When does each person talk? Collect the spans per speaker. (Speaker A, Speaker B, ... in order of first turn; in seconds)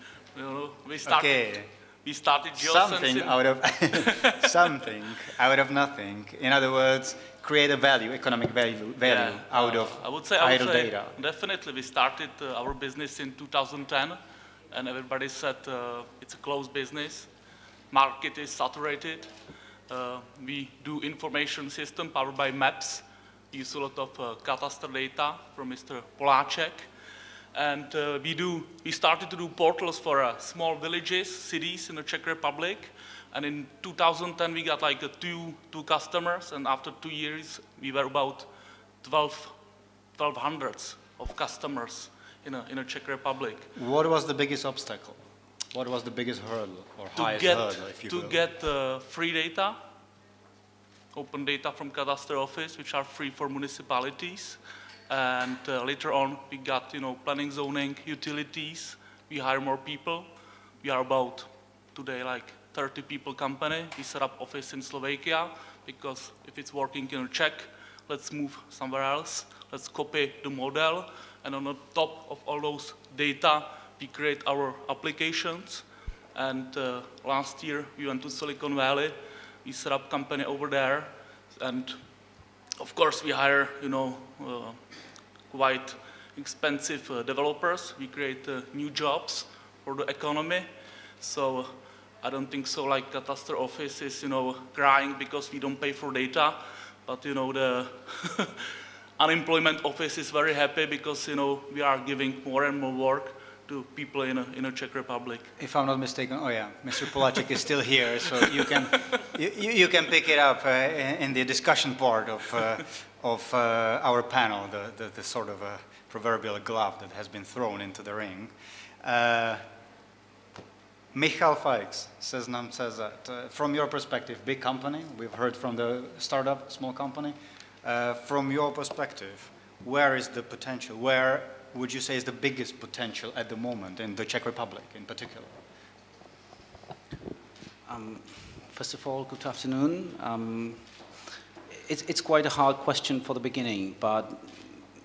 Speaker A: 0.3-4.7, 9.0-14.2, 14.7-17.3, 17.9-19.4, 19.9-26.9, 27.5-39.6, 40.1-43.7, 47.2-49.8, 51.1-82.0, 82.8-84.9, 85.5-90.7, 91.2-105.5
Speaker B: 1.1-1.7, 2.6-11.2, 43.8-48.4, 105.6-119.7, 121.1-135.6
Speaker C: 137.9-140.9, 141.8-144.6